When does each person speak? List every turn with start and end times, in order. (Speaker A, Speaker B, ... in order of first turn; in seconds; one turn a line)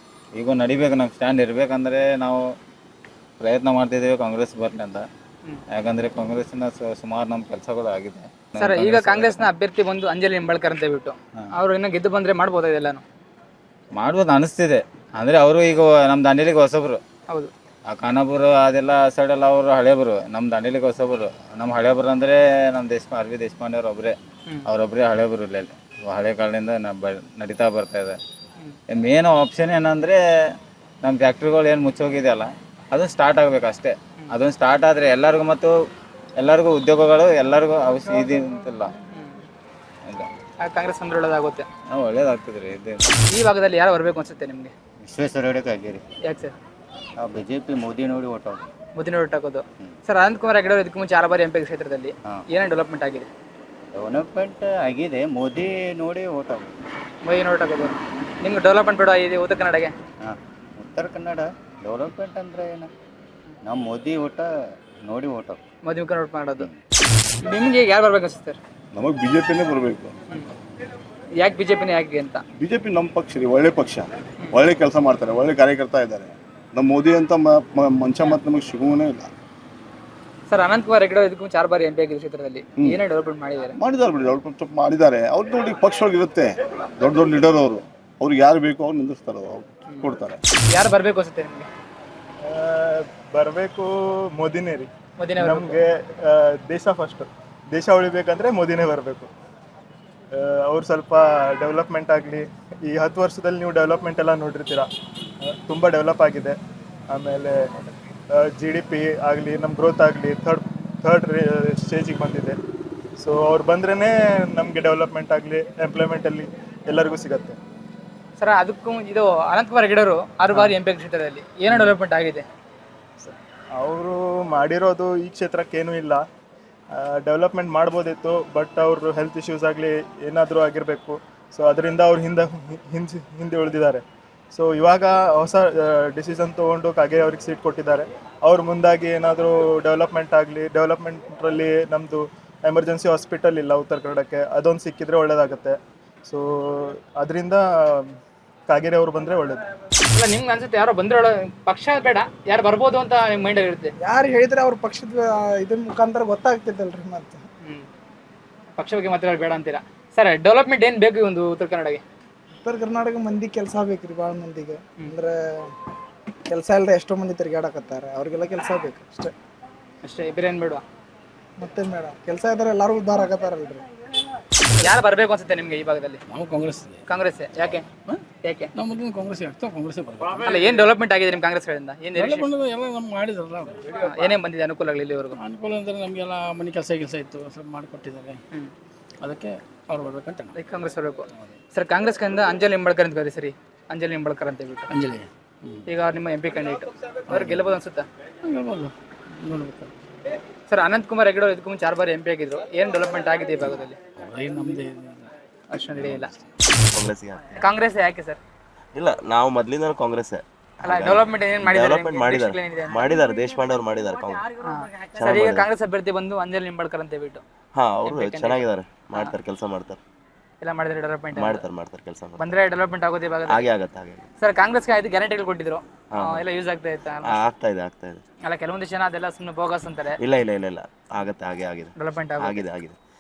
Speaker A: 0.3-2.4
Speaker A: 3.4-5.0
Speaker A: 5.7-9.5
Speaker B: 8.6-13.0
Speaker A: 13.9-17.0
Speaker A: 17.9-24.1
Speaker A: 24.7-28.2
Speaker A: 28.9-30.2
Speaker A: 31.0-35.7
Speaker A: 36.4-38.9
Speaker B: 40.6-41.7
Speaker A: 41.9-43.2
Speaker B: 43.3-44.7
Speaker C: 45.0-46.0
Speaker B: 46.3-46.5
Speaker C: 47.2-48.7
Speaker B: 49.0-53.3
Speaker C: 54.0-56.7
Speaker B: 57.2-59.9
Speaker C: 60.2-62.9
Speaker C: 63.6-64.5
Speaker C: 65.0-65.6
Speaker B: 65.8-66.7
Speaker B: 67.4-68.6
Speaker D: 68.9-70.1
Speaker B: 71.4-72.4
Speaker D: 72.6-79.3
Speaker B: 80.5-83.8
Speaker D: 83.8-90.4
Speaker B: 90.7-91.7
Speaker E: 92.5-93.9
Speaker E: 94.4-94.9
Speaker B: 95.2-95.8
Speaker E: 95.5-99.3
Speaker E: 100.4-104.9
Speaker E: 105.7-106.5
Speaker E: 107.1-107.5
Speaker E: 108.6-112.5
Speaker E: 113.2-117.6
Speaker B: 118.4-122.5
Speaker E: 123.2-126.2
Speaker E: 127.0-134.0
Speaker E: 134.6-135.7
Speaker E: 136.2-145.7
Speaker E: 146.3-148.0
Speaker E: 148.7-149.6
Speaker B: 150.1-153.9
Speaker F: 154.0-157.4
Speaker B: 158.8-162.0
Speaker F: 162.6-165.6
Speaker F: 166.5-169.3
Speaker B: 170.0-170.8
Speaker F: 171.6-173.8
Speaker B: 174.7-176.2
Speaker G: 176.3-177.0
Speaker B: 177.1-177.9
Speaker G: 178.0-178.2
Speaker B: 178.4-178.7
Speaker G: 178.8-180.5
Speaker B: 180.4-182.5
Speaker G: 182.2-183.9
Speaker B: 184.0-185.4
Speaker G: 185.3-188.4
Speaker G: 189.2-190.6
Speaker B: 190.5-194.9
Speaker G: 194.9-195.9
Speaker B: 195.9-198.1
Speaker G: 197.3-197.6
Speaker G: 198.4-199.9
Speaker B: 200.7-204.0
Speaker G: 204.2-205.3
Speaker B: 205.7-206.3
Speaker G: 205.9-206.4
Speaker H: 206.8-207.6
Speaker B: 207.6-208.4
Speaker H: 208.9-214.4
Speaker B: 210.8-213.1
Speaker B: 214.6-217.4
Speaker H: 215.2-215.7
Speaker H: 217.8-220.0
Speaker B: 218.1-219.3
Speaker B: 220.6-221.7
Speaker H: 221.3-222.6
Speaker B: 222.4-223.7
Speaker H: 223.5-224.3
Speaker B: 224.4-227.4
Speaker H: 226.1-226.4
Speaker H: 227.2-228.2
Speaker B: 228.4-230.2
Speaker H: 230.2-233.0
Speaker B: 232.0-232.7